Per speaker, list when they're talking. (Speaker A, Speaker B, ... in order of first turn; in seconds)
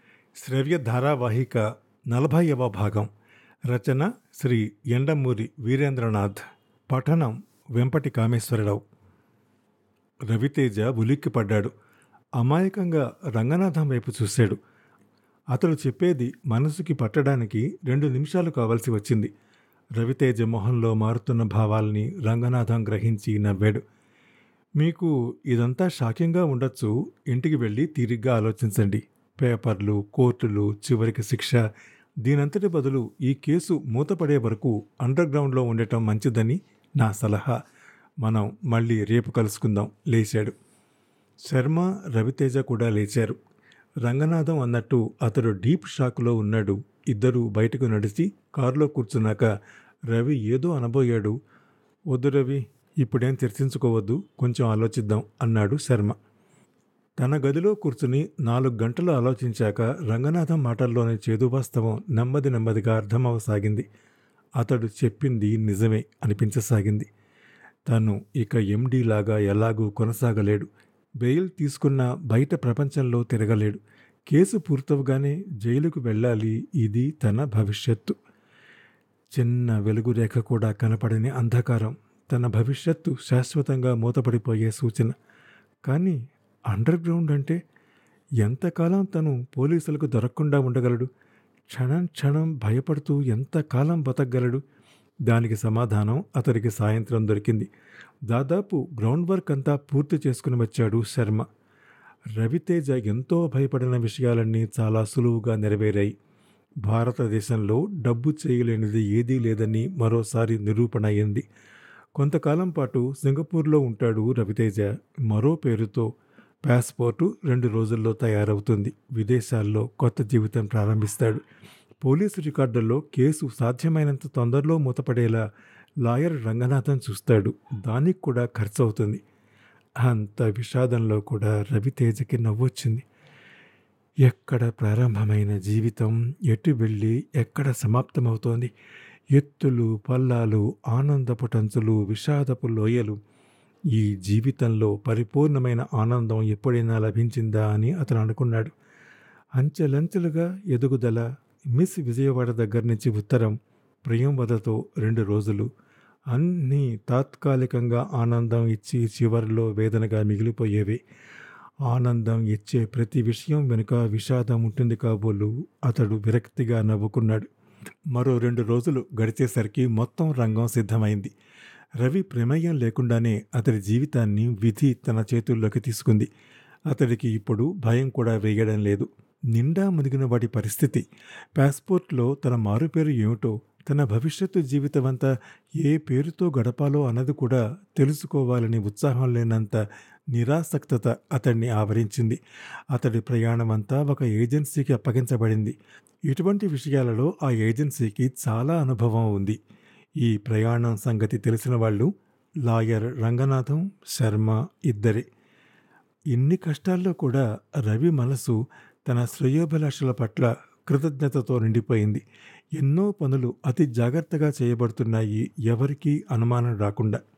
Speaker A: 0.4-3.1, 3.7-8.8, 10.3-11.7, 12.4-14.6, 15.5-19.3, 20.0-23.8, 24.8-31.6, 32.2-37.6, 38.2-40.5, 41.5-43.4, 44.0-49.5, 50.1-51.4, 52.1-56.2, 57.2-63.9, 64.6-67.1, 67.9-70.7, 71.2-78.2, 79.3-85.1, 85.9-86.2, 86.7-87.6, 88.4-91.1, 91.7-94.6, 95.3-97.7, 98.3-101.4, 102.4-106.1, 106.8-111.4, 112.2-116.1, 116.7-121.4, 122.0-125.4, 126.0-129.2, 130.0-133.1, 134.2-138.7, 139.3-143.2, 143.9-148.7, 149.6-155.7, 156.3-161.0, 161.9-167.5, 168.1-171.3, 172.0-176.3, 176.9-181.0, 181.6-189.8, 190.3-192.4, 192.9-195.8, 196.3-199.6, 200.2-202.1, 202.7-205.2, 206.3-212.2, 212.8-217.2